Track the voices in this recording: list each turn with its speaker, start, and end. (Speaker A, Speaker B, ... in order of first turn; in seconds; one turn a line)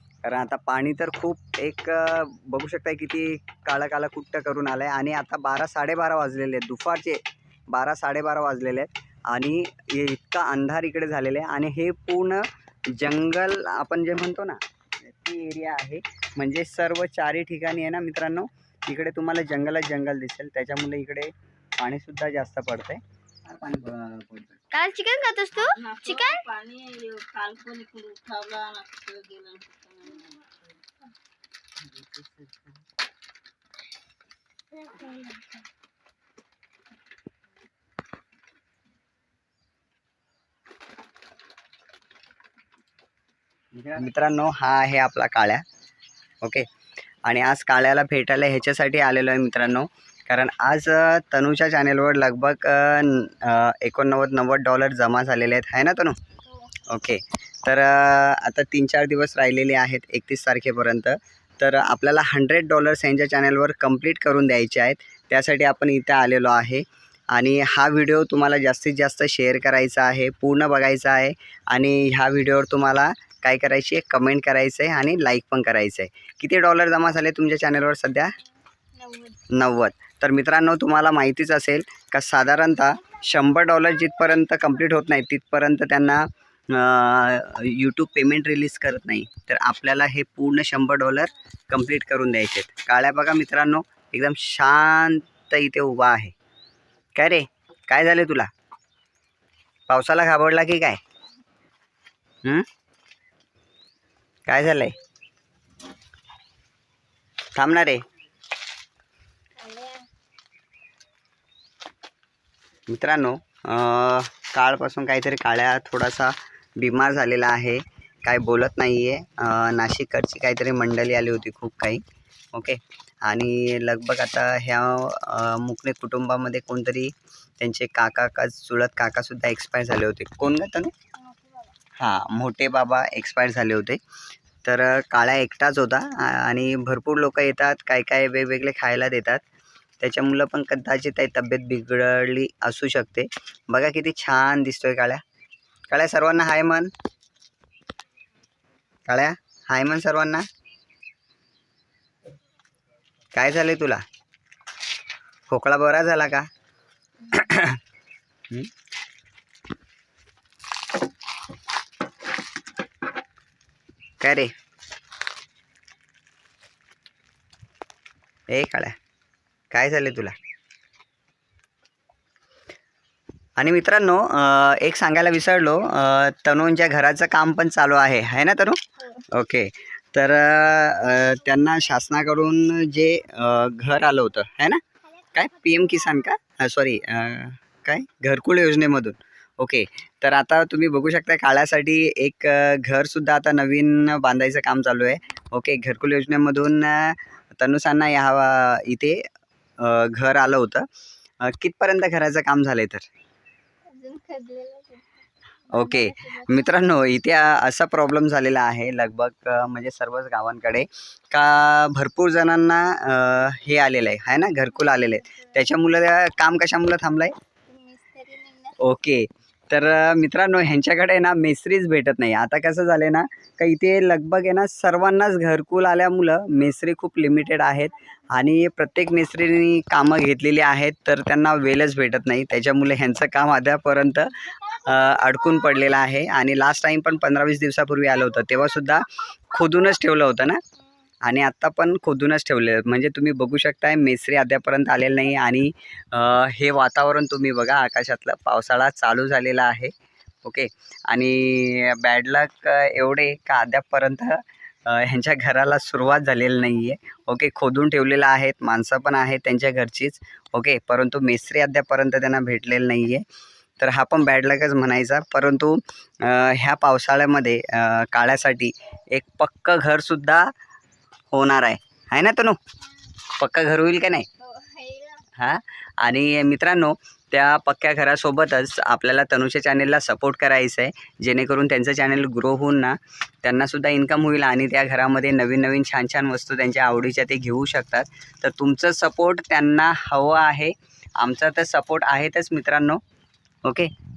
Speaker A: 0.2-24.6
Speaker B: 24.7-26.4
Speaker C: 25.5-30.6
Speaker C: 32.0-32.6
Speaker B: 34.8-35.6
Speaker A: 43.7-45.6
Speaker A: 46.4-46.7
Speaker A: 47.2-56.2
Speaker A: 56.9-78.4
Speaker B: 78.9-79.4
Speaker A: 79.5-96.3
Speaker A: 97.1-98.5
Speaker A: 99.9-101.0
Speaker A: 104.5-104.9
Speaker A: 107.5-108.0
Speaker B: 109.5-110.0
Speaker A: 112.9-122.0
Speaker A: 122.5-130.9
Speaker B: 131.2-131.7
Speaker A: 132.0-134.0
Speaker A: 134.6-139.4
Speaker A: 140.0-145.2
Speaker A: 145.9-146.9
Speaker A: 149.1-150.5
Speaker A: 153.3-154.0
Speaker A: 155.5-156.5
Speaker A: 157.3-157.8
Speaker A: 164.2-164.5
Speaker A: 168.5-168.9
Speaker A: 169.7-170.3
Speaker A: 173.6-184.8
Speaker A: 185.3-199.3
Speaker A: 199.8-200.8
Speaker A: 201.4-203.1
Speaker B: 203.8-205.1
Speaker B: 205.7-206.8
Speaker A: 205.7-217.3
Speaker B: 214.7-215.5
Speaker B: 217.7-218.8
Speaker A: 218.8-240.6
Speaker A: 241.2-249.9
Speaker A: 250.4-263.2
Speaker A: 263.8-270.5
Speaker A: 271.3-272.6
Speaker A: 273.2-274.3
Speaker B: 274.4-275.2
Speaker A: 275.4-293.0
Speaker A: 293.6-293.9